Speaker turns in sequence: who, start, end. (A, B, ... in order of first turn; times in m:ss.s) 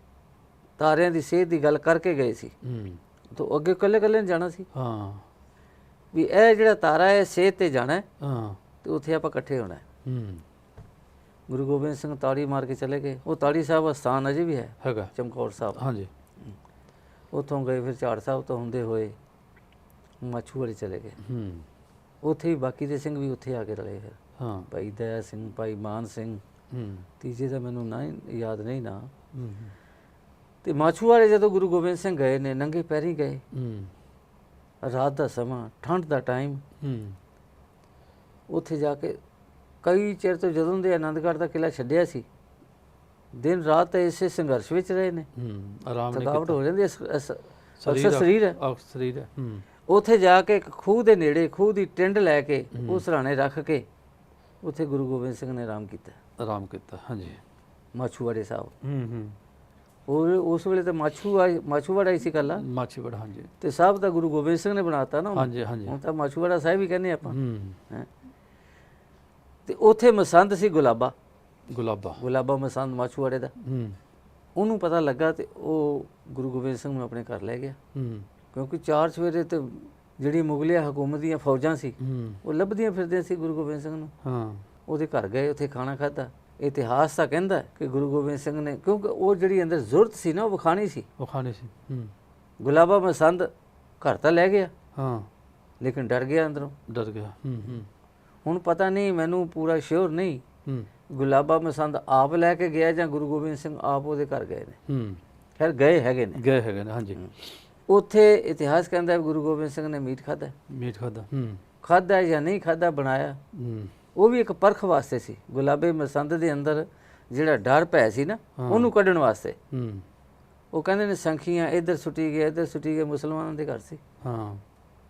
0:00.8-0:02.5 A
0:02.6-0:03.0 B
0:03.3-0:04.7 A
0:04.7-0:05.2 B
0:06.1-0:08.0 A
0:08.2-0:08.6 B
0:08.8-0:09.8 A
0:10.0-0:10.4 B
0:11.5-0:15.8 A
0:14.8-0:15.1 B
0:15.8-0:16.1 B
0:17.3-0:19.2 A
0:20.2-0:21.2 A
0:21.2-0:21.7 B
0:22.2-0:24.2 A
0:24.4-0:24.7 B
0:24.7-0:26.4 A
0:26.7-0:27.0 B
0:27.2-0:29.1 A
0:29.3-0:29.7 B
0:30.6-0:33.4 A
0:33.5-0:33.9 B
0:34.8-0:36.6 A
0:36.8-0:37.2 B
0:38.5-0:39.2 A
0:39.8-0:42.2 A
0:43.3-0:45.3 A
0:45.3-0:46.6 B
0:46.1-0:48.6 A
0:47.8-0:49.6 B
0:49.9-0:53.8 A
0:52.7-0:53.0 B
0:54.6-0:56.2 A
0:56.4-0:57.4 B
0:57.9-0:58.7 A
0:58.8-0:59.4 B
1:00.1-1:02.6 A
1:02.6-1:03.5 B
1:03.6-1:07.4 A
1:05.3-1:06.0 B
1:07.2-1:07.8 B
1:09.6-1:11.1 A
1:11.7-1:12.2 B
1:12.2-1:13.5 A
1:13.6-1:14.0 B
1:14.6-1:17.8 A
1:17.9-1:18.3 B
1:18.5-1:24.1 A
1:22.0-1:22.4 B
1:24.2-1:24.6 B
1:24.9-1:31.0 A
1:31.2-1:32.1 B
1:32.6-1:34.7 A
1:34.9-1:35.3 B
1:35.8-1:36.7 A
1:36.9-1:37.9 B
1:38.4-1:40.4 A
1:41.1-1:44.8 A
1:44.9-1:45.2 B
1:45.6-1:46.4 A
1:46.3-1:47.6 B
1:47.9-1:50.5 A
1:50.7-1:51.6 B
1:51.8-1:53.4 A
1:53.5-1:53.9 B
1:54.1-1:59.6 A
1:58.6-1:58.9 B
1:59.7-2:00.1 B
2:00.7-2:04.0 A
2:04.2-2:04.6 B